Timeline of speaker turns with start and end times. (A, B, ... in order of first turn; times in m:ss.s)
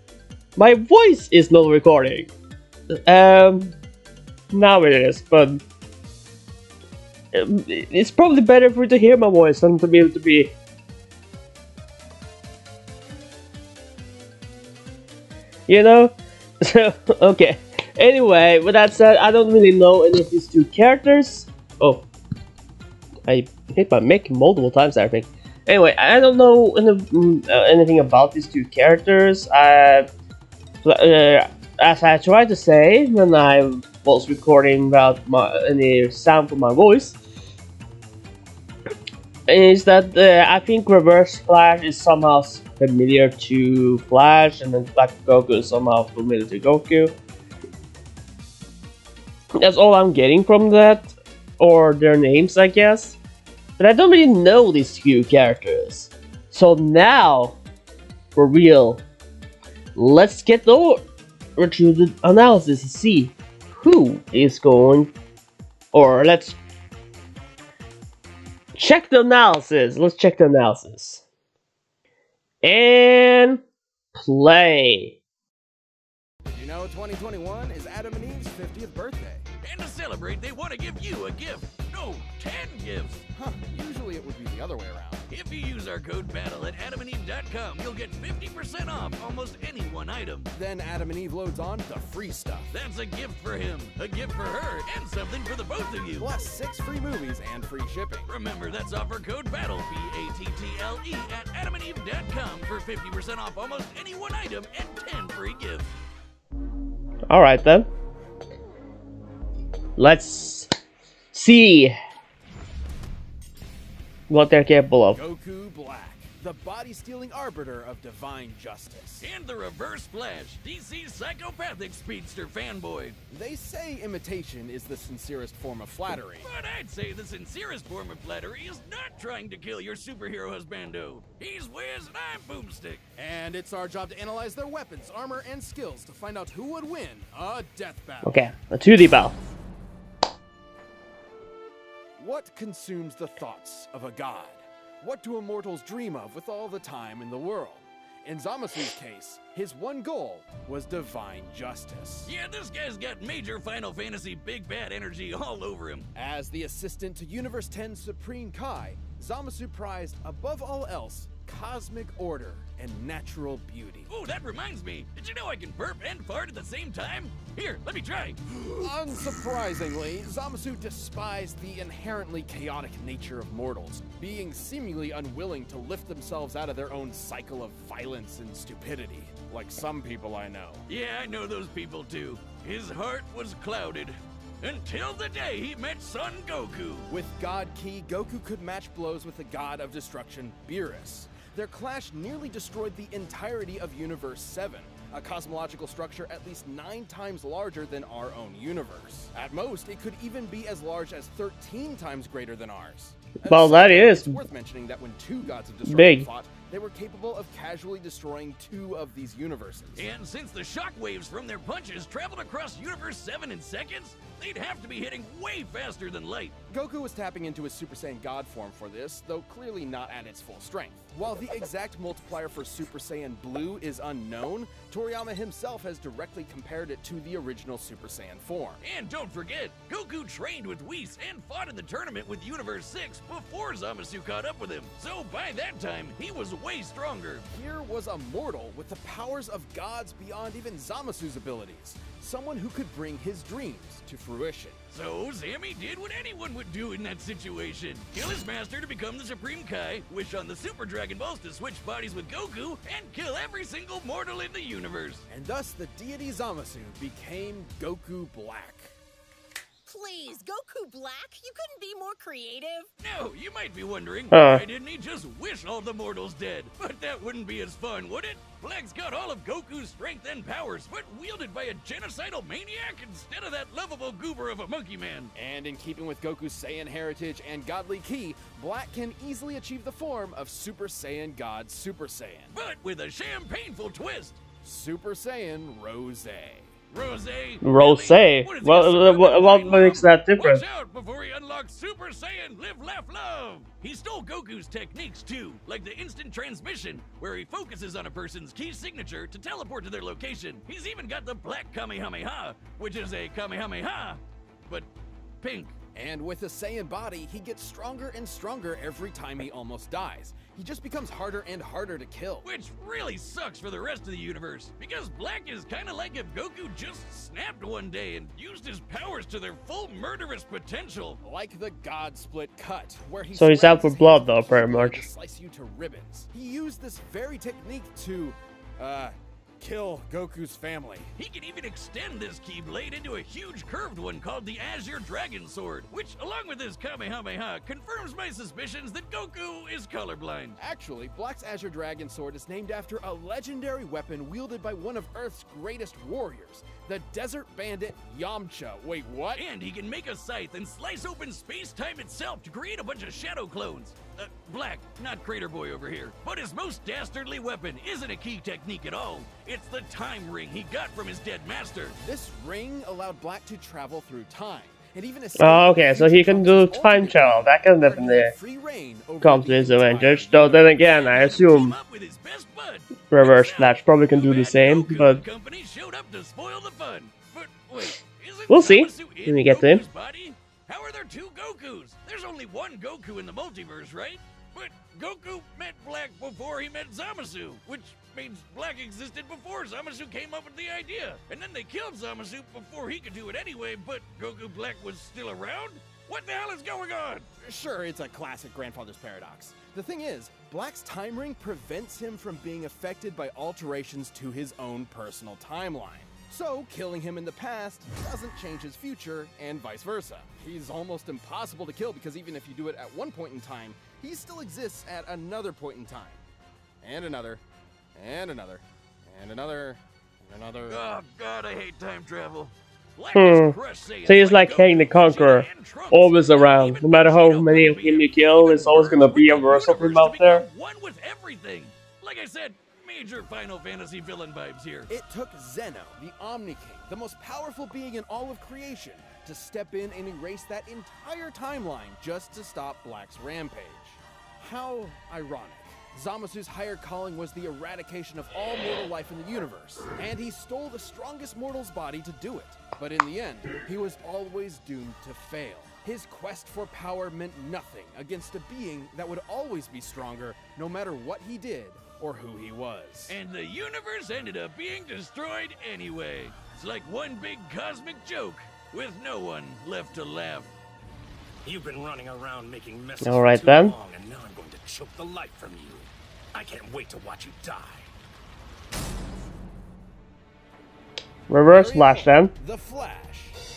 0:00.6-0:02.3 A
0:02.9-0:03.7 A
0:04.5-0:05.6 A
0:07.3-0:10.5 A
0:15.7-0:22.1 A
0:23.3-0:30.1 A
0:30.8-0:37.2 A
0:39.5-0:47.2 A
0:49.6-0:53.2 A
0:53.8-0:57.6 A
0:58.4-0:59.0 A
1:00.0-1:01.0 A
1:01.6-1:05.1 A
1:05.9-1:06.6 A
1:08.8-1:11.2 A
1:12.6-1:13.6 A
1:14.2-1:15.2 A
1:16.5-1:19.5 B
1:19.6-1:23.2 C
1:23.3-1:25.3 B
1:25.3-1:30.5 C
1:30.5-1:32.7 B
1:32.7-1:36.3 C
1:36.2-1:38.3 B
1:38.3-1:45.9 C
1:47.3-1:47.9 A
1:50.0-1:50.7 A
1:51.3-1:52.0 A
1:54.3-1:55.2 A
1:55.1-1:59.3 B
1:59.2-2:03.2 C
2:03.3-2:06.5 B
2:06.4-2:13.0 C
2:13.2-2:18.4 B
2:18.2-2:19.3 A
2:22.2-2:32.3 B
2:32.3-2:36.1 C
2:36.2-2:44.1 B
2:44.1-2:48.4 C
2:48.8-3:00.8 B
3:00.9-3:07.1 C
3:07.1-3:30.1 B
3:23.5-3:24.4 A
3:25.9-3:26.3 A
3:30.0-3:36.6 C
3:36.7-3:48.8 B
3:48.8-3:57.4 C
3:57.5-4:04.8 B
4:04.9-4:15.2 C
4:15.3-4:18.9 B
4:19.9-4:22.9 D
4:23.0-4:35.3 C
4:24.3-4:24.6 A
4:35.4-4:42.5 B
4:42.5-4:44.4 C
4:44.6-4:46.7 B
4:46.9-5:04.9 C
4:47.6-4:50.6 A
5:05.4-5:05.7 C
5:06.0-5:12.5 B
5:12.4-5:21.2 C
5:21.2-5:31.1 B
5:23.4-5:25.0 A
5:31.2-5:40.6 C
5:40.6-5:49.4 B
5:49.4-6:02.0 C
6:02.0-6:10.7 B
6:05.4-6:08.3 A
6:09.2-6:11.8 A
6:10.8-6:37.3 C
6:13.1-6:15.2 A
6:18.5-6:19.8 A
6:37.4-6:56.2 B
6:56.8-6:57.4 B
6:58.0-7:00.8 B
7:00.7-7:14.9 C
7:03.1-7:10.4 A
7:14.9-7:43.2 B
7:43.1-7:50.5 C
7:51.4-7:57.9 E
7:53.0-7:53.8 A
8:01.3-8:02.3 A
8:01.4-8:03.4 B